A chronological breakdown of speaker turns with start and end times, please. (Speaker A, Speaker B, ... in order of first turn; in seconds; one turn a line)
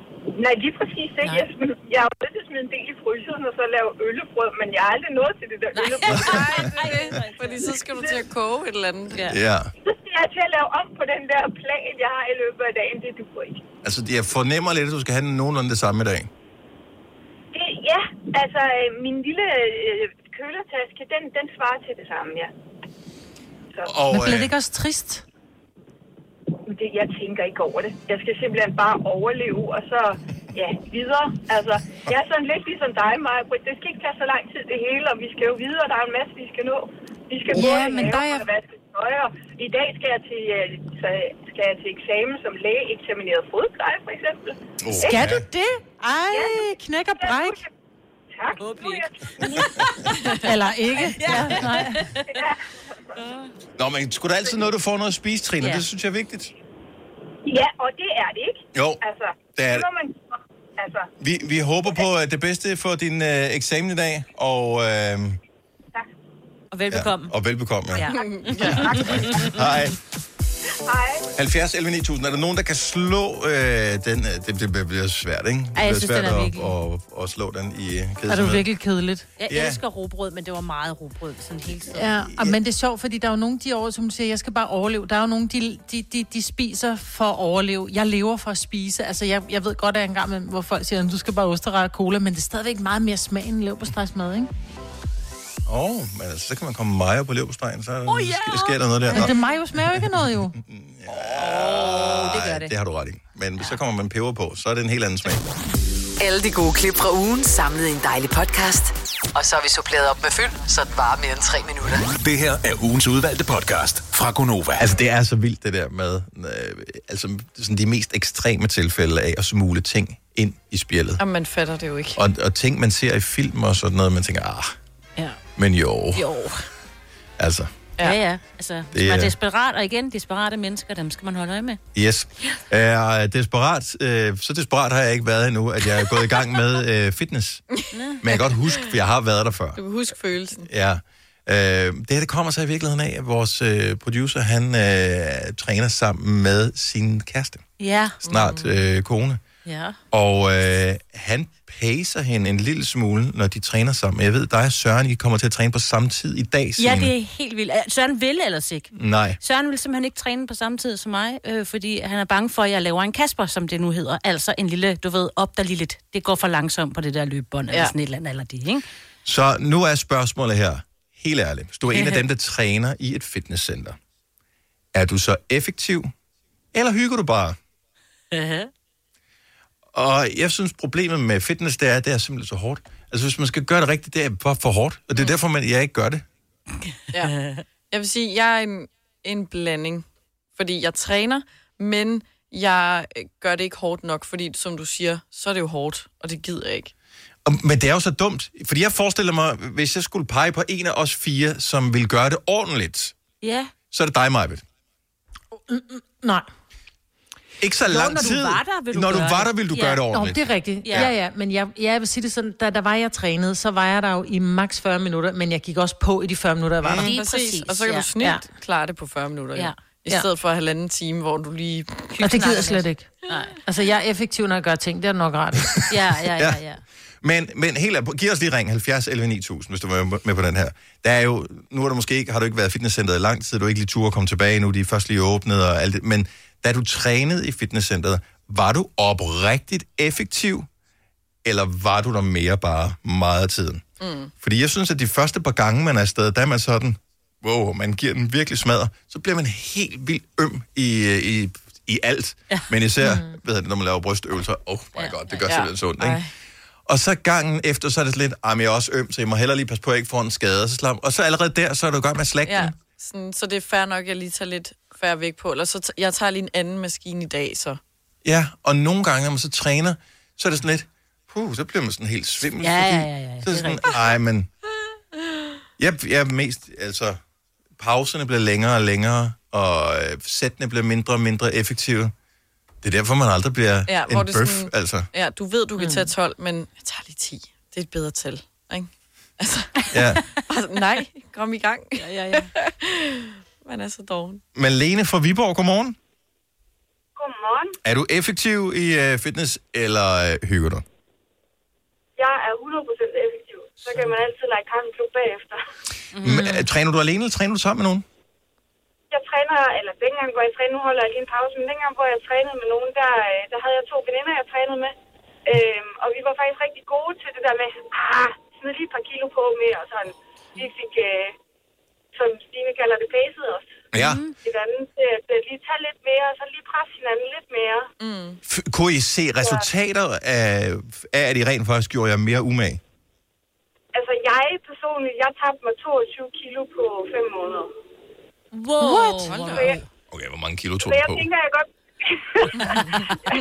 Speaker A: 0.3-7.1
Speaker B: 5.7-7.8
Speaker C: 6.4-9.3
Speaker A: 7.9-8.2
Speaker B: 9.1-9.4
Speaker D: 9.3-9.7
Speaker A: 9.8-13.6
Speaker D: 13.8-16.3
Speaker A: 17.5-22.5
Speaker D: 23.9-24.5
Speaker E: 24.1-25.2
Speaker A: 26.6-45.3
Speaker E: 37.5-38.5
Speaker D: 44.8-45.5
Speaker E: 45.0-47.6
Speaker A: 46.3-47.7
Speaker A: 48.3-50.5
Speaker B: 48.6-49.0
Speaker E: 50.4-52.1
Speaker B: 51.2-52.2
Speaker A: 51.5-52.6
Speaker D: 53.8-56.5
Speaker B: 55.6-55.8
Speaker A: 57.4-61.1
Speaker D: 58.7-59.0
Speaker D: 59.5-59.9
Speaker D: 61.2-65.4
Speaker B: 66.7-67.3
Speaker D: 66.9-68.1
Speaker B: 67.9-69.7
Speaker C: 68.1-69.3
Speaker D: 68.6-70.0
Speaker A: 70.8-71.3
Speaker D: 71.3-78.6
Speaker B: 75.7-76.8
Speaker E: 78.3-79.3
Speaker B: 79.4-82.2
Speaker D: 79.5-79.8
Speaker E: 81.9-94.5
Speaker D: 82.3-82.6
Speaker D: 95.7-99.3
Speaker B: 98.0-99.6
Speaker E: 99.1-100.5
Speaker D: 99.9-105.4
Speaker B: 101.2-102.7
Speaker F: 106.2-112.1
Speaker G: 112.2-114.9
Speaker D: 114.8-121.2
Speaker C: 121.2-122.2
Speaker D: 122.2-124.7
Speaker D: 125.6-126.3
Speaker B: 126.1-126.7
Speaker D: 127.4-127.7
Speaker B: 128.0-131.8
Speaker D: 128.9-129.3
Speaker D: 131.9-139.8
Speaker B: 137.9-138.2
Speaker C: 139.8-140.7
Speaker D: 140.6-147.6
Speaker B: 147.8-148.2
Speaker C: 148.2-148.8
Speaker D: 148.2-149.4
Speaker B: 149.6-150.0
Speaker D: 150.1-157.1
Speaker B: 156.8-168.8
Speaker D: 158.9-159.4
Speaker D: 169.2-174.0
Speaker B: 171.9-172.2
Speaker D: 174.9-176.1
Speaker D: 176.7-177.6
Speaker B: 178.3-178.7
Speaker D: 179.9-186.2
Speaker C: 187.1-190.1
Speaker B: 187.2-187.6
Speaker C: 190.6-196.9
Speaker D: 197.4-203.2
Speaker B: 203.4-203.7
Speaker D: 203.9-204.6
Speaker E: 205.5-206.5
Speaker D: 207.6-211.1
Speaker B: 207.9-210.0
Speaker E: 210.1-217.1
Speaker B: 210.8-211.1
Speaker D: 216.8-217.1
Speaker B: 216.9-218.4
Speaker C: 217.0-222.2
Speaker B: 219.5-220.2
Speaker B: 222.2-223.6
Speaker E: 222.2-225.9
Speaker D: 225.8-226.6
Speaker B: 225.9-226.8
Speaker D: 227.2-240.7
Speaker D: 241.4-243.8
Speaker C: 244.0-244.3
Speaker D: 244.4-256.2
Speaker E: 253.0-253.3
Speaker B: 255.0-255.6
Speaker C: 255.5-256.3
Speaker D: 256.9-262.7
Speaker C: 262.4-267.8
Speaker D: 268.2-274.5
Speaker B: 272.5-274.0
Speaker D: 275.8-277.2
Speaker D: 277.8-282.1
Speaker D: 282.8-285.1
Speaker C: 283.9-294.4
Speaker B: 285.8-286.1
Speaker D: 289.9-290.2
Speaker B: 292.0-292.5
Speaker D: 294.5-295.9
Speaker A: 297.2-297.7
Speaker D: 297.8-300.8
Speaker A: 302.2-305.5
Speaker B: 306.1-306.6
Speaker D: 306.2-308.0
Speaker E: 306.2-306.6
Speaker A: 309.1-314.8
Speaker A: 315.6-320.0
Speaker A: 320.6-321.0
Speaker A: 322.2-323.6
Speaker D: 323.9-324.2
Speaker B: 323.9-324.3
Speaker A: 325.3-327.7
Speaker C: 328.0-328.4
Speaker D: 328.5-332.8
Speaker A: 334.0-337.6
Speaker B: 338.5-339.8
Speaker E: 338.8-339.3
Speaker C: 339.3-339.8
Speaker D: 340.1-341.3
Speaker A: 340.8-341.6
Speaker A: 342.4-342.7